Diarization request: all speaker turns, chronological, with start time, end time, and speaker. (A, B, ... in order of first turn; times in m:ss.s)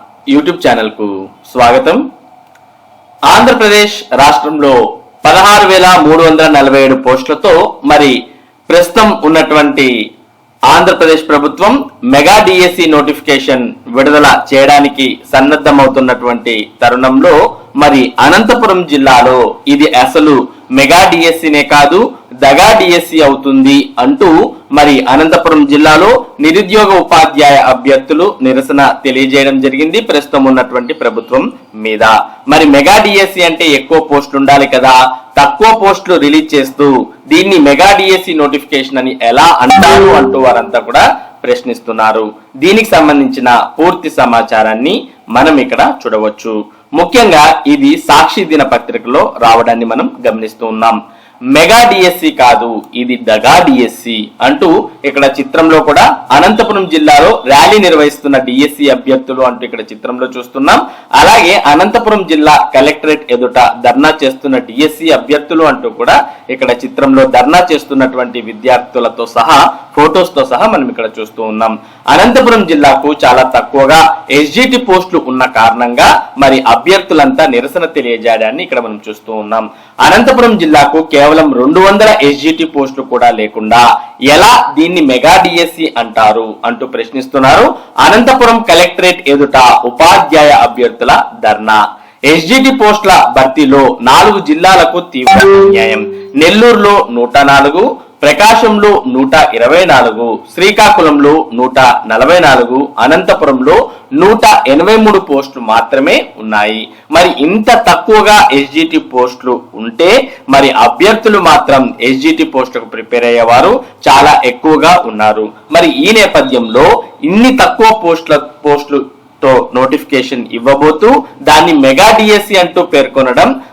0:00.3-0:02.0 A
0:03.3-0:08.2 A
0:08.7-0:09.9 A
0:10.7-0:51.0 A
0:51.5-2:03.5 A